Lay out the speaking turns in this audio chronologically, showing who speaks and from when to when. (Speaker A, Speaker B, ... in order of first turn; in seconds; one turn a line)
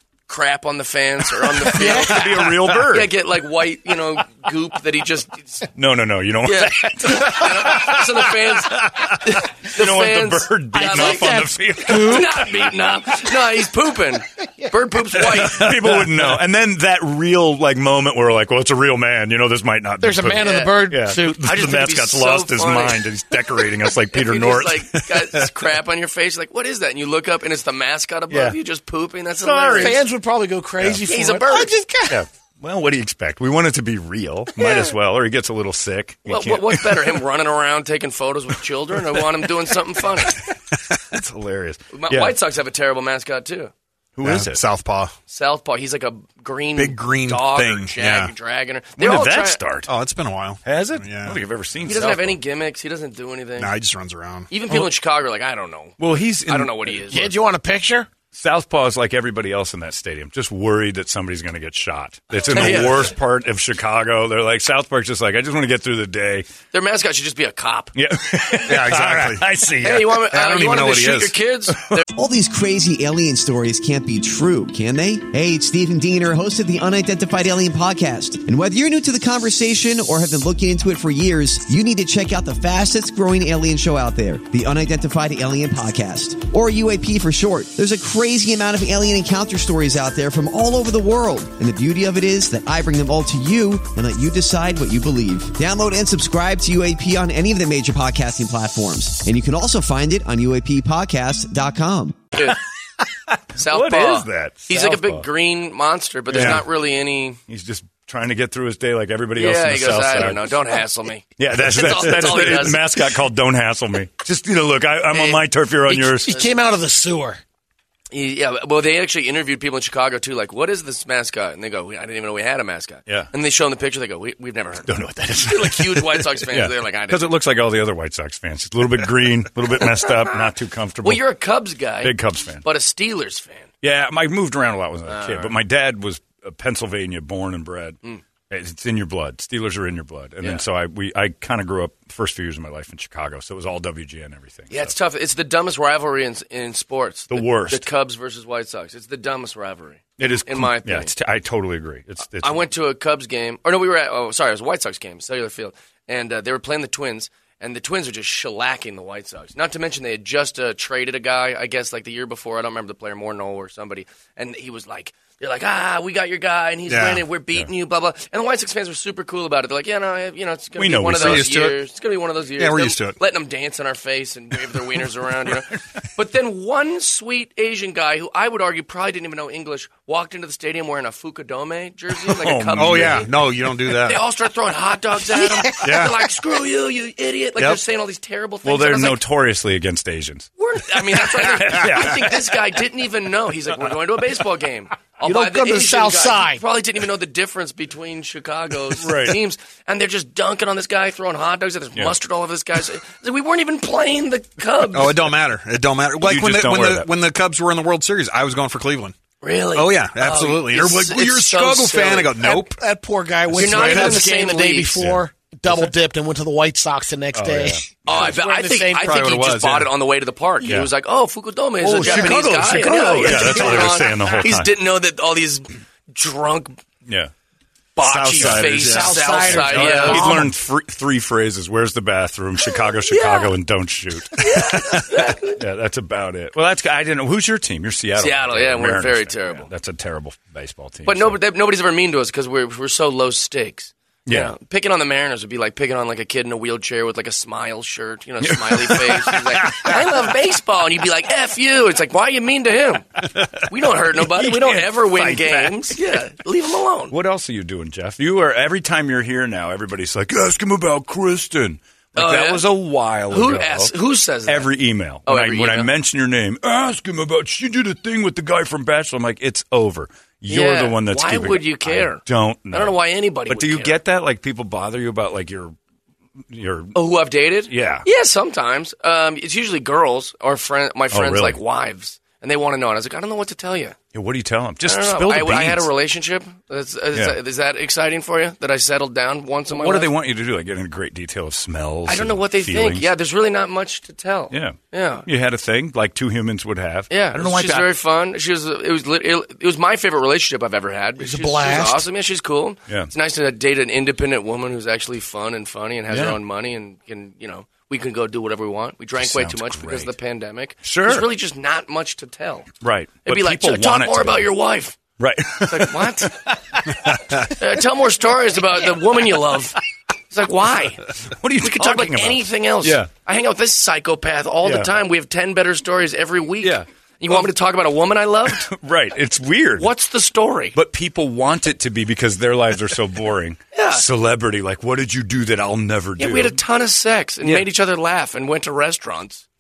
Speaker A: 0.3-5.7
Speaker B: 1.4-3.1
Speaker C: 1.8-2.5
Speaker B: 5.8-12.7
Speaker A: 6.4-11.4
Speaker C: 10.7-12.4
Speaker A: 11.9-16.1
Speaker B: 15.2-25.4
Speaker C: 20.0-21.5
Speaker A: 20.4-20.8
Speaker A: 21.4-23.1
Speaker A: 24.1-30.0
Speaker B: 28.3-28.6
Speaker B: 29.4-30.0
Speaker C: 29.7-32.2
Speaker A: 31.1-31.7
Speaker B: 32.1-37.2
Speaker A: 34.6-34.9
Speaker A: 36.3-40.4
Speaker B: 40.2-42.4
Speaker A: 41.9-43.7
Speaker B: 44.2-44.6
Speaker D: 44.2-45.1
Speaker A: 45.3-49.6
Speaker D: 46.8-48.3
Speaker B: 49.0-49.9
Speaker D: 49.9-51.4
Speaker B: 50.6-52.4
Speaker A: 51.9-53.7
Speaker D: 53.6-54.5
Speaker A: 54.5-57.3
Speaker B: 56.0-57.3
Speaker C: 57.1-58.1
Speaker B: 58.3-66.5
Speaker A: 62.5-63.1
Speaker A: 66.7-68.0
Speaker B: 68.0-70.1
Speaker D: 68.7-71.3
Speaker A: 69.8-72.0
Speaker E: 72.2-102.2
Speaker B: 103.3-105.2
Speaker A: 103.6-107.4
Speaker B: 106.3-106.7
Speaker B: 107.5-110.5
Speaker A: 109.4-113.1
Speaker B: 111.4-116.3
Speaker A: 115.1-116.5
Speaker C: 116.0-117.4
Speaker A: 118.1-127.3
Speaker B: 124.8-131.2
Speaker A: 131.0-133.7
Speaker B: 132.0-132.6
Speaker B: 133.8-138.0
Speaker A: 135.1-135.6
Speaker B: 138.5-144.9
Speaker A: 144.7-151.1
Speaker B: 147.3-147.8
Speaker B: 150.2-152.6
Speaker A: 152.4-183.3
Speaker D: 166.9-167.2
Speaker B: 170.8-171.5
Speaker D: 171.2-171.8
Speaker D: 172.6-173.2
Speaker B: 182.2-183.3
Speaker D: 182.7-184.2
Speaker A: 184.0-189.2
Speaker D: 185.8-186.2
Speaker B: 188.6-192.6
Speaker A: 190.6-205.2
Speaker C: 195.2-196.6
Speaker B: 199.0-199.4
Speaker D: 204.9-209.2
Speaker B: 206.2-207.1
Speaker A: 209.4-212.3
Speaker D: 209.8-212.8
Speaker C: 212.4-219.3
Speaker A: 213.6-215.0
Speaker D: 213.6-214.2
Speaker B: 215.0-215.2
Speaker B: 217.3-218.4
Speaker A: 218.1-226.8
Speaker D: 219.0-219.9
Speaker B: 220.6-220.9
Speaker B: 221.8-224.7
Speaker C: 222.0-222.5
Speaker C: 223.1-224.0
Speaker B: 227.1-227.3
Speaker A: 228.0-230.3
Speaker D: 228.0-230.2
Speaker C: 228.4-230.5
Speaker B: 229.7-241.4
Speaker A: 233.1-233.6
Speaker A: 234.3-235.6
Speaker A: 238.2-239.7
Speaker A: 241.1-257.1
Speaker B: 244.3-244.6
Speaker B: 248.4-250.3
Speaker B: 253.3-253.6
Speaker B: 254.2-256.0
Speaker B: 257.1-263.9
Speaker A: 262.2-262.7
Speaker A: 263.3-264.7
Speaker B: 264.5-275.8
Speaker A: 265.2-265.9
Speaker A: 270.5-274.0
Speaker B: 276.5-277.0
Speaker A: 276.9-284.0
Speaker B: 277.7-278.1
Speaker B: 281.1-281.6
Speaker B: 284.1-285.9
Speaker A: 284.9-290.1
Speaker B: 287.1-287.4
Speaker B: 289.7-293.1
Speaker A: 292.1-295.3
Speaker B: 294.5-297.9
Speaker A: 297.1-312.7
Speaker C: 301.2-302.1
Speaker B: 306.1-306.4
Speaker B: 309.2-310.1
Speaker B: 310.8-311.3
Speaker B: 312.8-314.5
Speaker A: 313.2-315.0
Speaker B: 315.2-317.5
Speaker A: 315.7-316.4
Speaker A: 317.4-319.8
Speaker A: 320.3-328.7
Speaker B: 321.3-323.1
Speaker B: 324.6-324.9
Speaker B: 326.6-327.4
Speaker B: 328.5-329.9
Speaker A: 329.8-330.8
Speaker B: 330.7-336.6
Speaker A: 333.7-334.1
Speaker A: 336.2-339.4